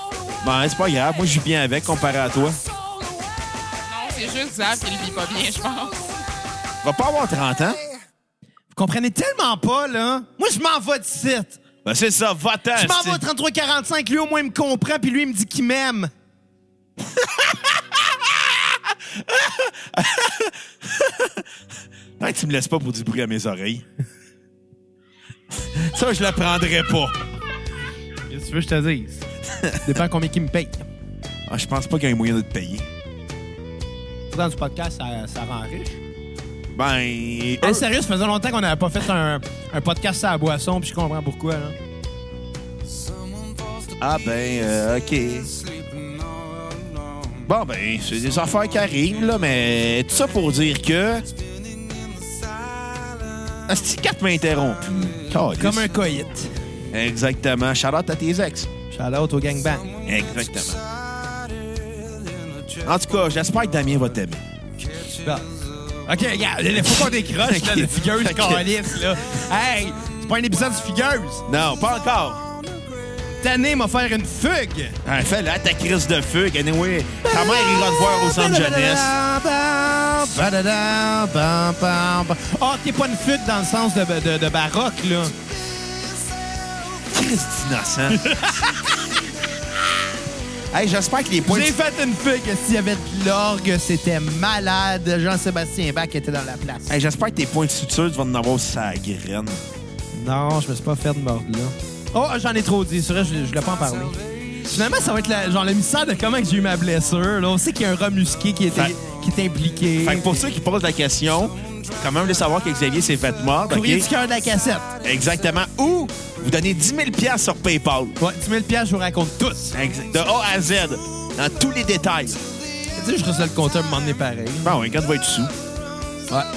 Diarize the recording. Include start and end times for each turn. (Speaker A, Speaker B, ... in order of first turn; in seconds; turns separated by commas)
Speaker A: 0.4-2.6, Speaker B: 3.9-6.0, Speaker A: 6.8-7.8, Speaker C: 8.7-11.6, Speaker A: 11.8-13.2, Speaker C: 12.8-16.1, Speaker A: 17.1-21.5, Speaker A: 22.2-23.9, Speaker A: 25.5-27.2, Speaker C: 28.3-29.3, Speaker A: 29.5-29.9, Speaker C: 29.8-30.8, Speaker A: 31.5-32.9, Speaker C: 34.3-36.0, Speaker A: 36.7-37.9, Speaker C: 37.6-41.8, Speaker A: 44.0-45.5, Speaker A: 47.4-51.3, Speaker A: 53.7-55.9, Speaker C: 55.6-56.5, Speaker A: 56.9-58.7, Speaker C: 58.9-59.9, Speaker A: 60.1-60.8, Speaker A: 62.8-64.4, Speaker C: 65.2-65.5, Speaker C: 66.0-71.5, Speaker A: 66.8-69.0, Speaker A: 71.5-72.5, Speaker C: 73.4-75.0, Speaker A: 75.0-79.1, Speaker C: 77.2-85.3, Speaker A: 87.1-88.2, Speaker C: 88.1-88.9, Speaker A: 90.7-91.7, Speaker C: 91.4-97.0, Speaker A: 96.9-99.6, Speaker C: 100.1-110.5, Speaker A: 108.7-109.0, Speaker A: 110.0-114.1, Speaker C: 113.7-114.9, Speaker A: 115.0-118.2, Speaker C: 118.2-119.8, Speaker A: 119.7-122.5, Speaker C: 123.0-124.8, Speaker A: 124.6-125.5